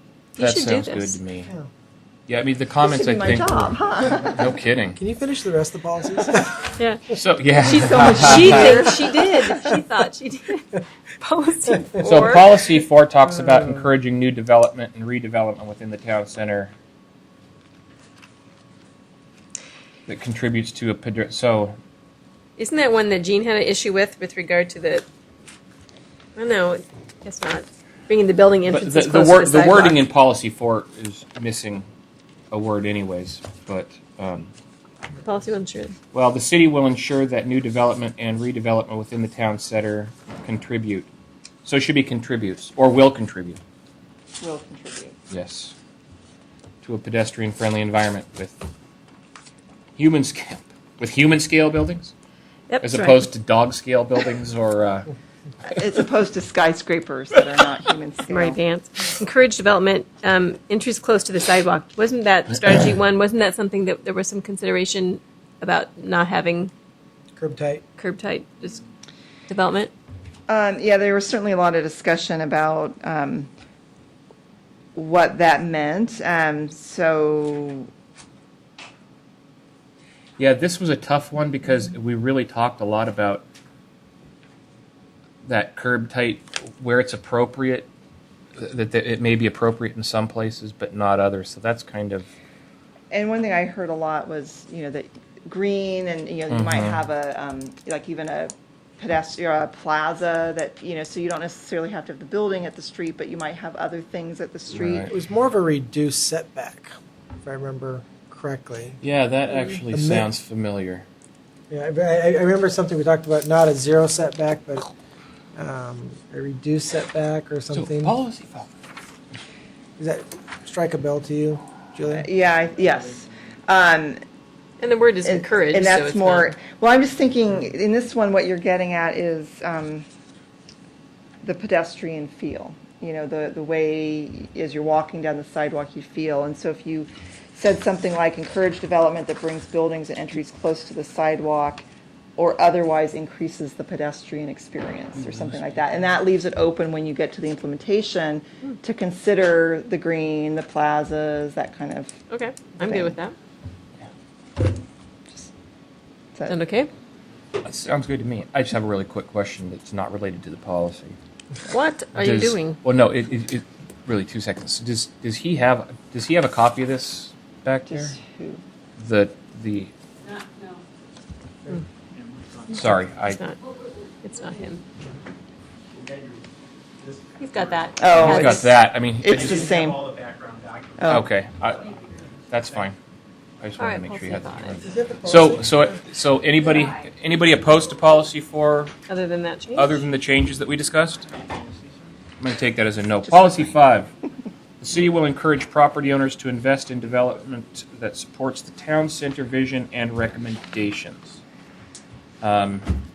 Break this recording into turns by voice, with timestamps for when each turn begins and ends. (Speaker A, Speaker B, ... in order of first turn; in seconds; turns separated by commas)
Speaker A: 0.4-1.2, Speaker B: 0.4-1.5, Speaker B: 2.3-5.0, Speaker C: 2.8-4.5, Speaker D: 5.0-6.5, Speaker A: 6.8-12.6, Speaker B: 7.1-9.0, Speaker C: 7.7-9.5, Speaker B: 12.0-16.7, Speaker B: 20.1-21.8, Speaker A: 22.6-25.0, Speaker A: 26.4-30.0, Speaker B: 28.7-31.8, Speaker B: 32.5-34.5, Speaker A: 35.2-35.9, Speaker B: 36.1-41.1, Speaker B: 41.6-43.6, Speaker C: 44.4-45.2, Speaker B: 45.3-45.7, Speaker B: 46.8-48.7, Speaker B: 50.0-52.1, Speaker A: 52.7-53.2, Speaker B: 52.8-55.1, Speaker C: 55.7-58.6, Speaker A: 58.3-66.7, Speaker D: 67.3-67.8, Speaker A: 68.0-68.8, Speaker A: 69.5-69.9, Speaker C: 70.5-73.5, Speaker C: 74.9-77.9, Speaker B: 80.4-83.4, Speaker B: 85.4-87.9, Speaker B: 88.6-92.3, Speaker C: 93.1-105.1, Speaker B: 96.5-97.0, Speaker B: 104.7-105.1, Speaker D: 105.1-109.0, Speaker B: 109.0-111.0, Speaker D: 109.9-110.3, Speaker D: 111.7-114.9, Speaker D: 115.5-118.1, Speaker B: 117.7-118.7, Speaker D: 120.0-122.3, Speaker C: 122.1-124.2, Speaker A: 124.8-126.5, Speaker C: 125.2-130.1, Speaker C: 131.4-141.8, Speaker C: 142.4-152.1, Speaker A: 152.3-153.3, Speaker C: 152.8-153.2, Speaker A: 156.5-156.9, Speaker B: 157.6-161.2, Speaker A: 161.7-162.8, Speaker B: 162.2-168.1, Speaker C: 167.9-168.6, Speaker B: 169.0-169.9, Speaker E: 172.4-172.8, Speaker B: 172.7-173.4, Speaker A: 173.3-173.6, Speaker A: 174.2-174.8, Speaker E: 175.9-176.4, Speaker E: 177.0-178.0, Speaker A: 177.4-178.7, Speaker C: 178.0-178.7, Speaker B: 178.1-179.6, Speaker C: 179.2-180.0, Speaker E: 179.3-181.0, Speaker C: 181.0-181.2, Speaker B: 181.1-182.0, Speaker B: 182.5-182.9, Speaker B: 183.6-188.9, Speaker A: 183.8-184.8, Speaker D: 184.8-185.8, Speaker A: 189.1-189.9, Speaker B: 189.7-191.3, Speaker B: 192.4-194.1, Speaker C: 193.3-193.7, Speaker B: 194.8-201.4, Speaker B: 202.4-202.9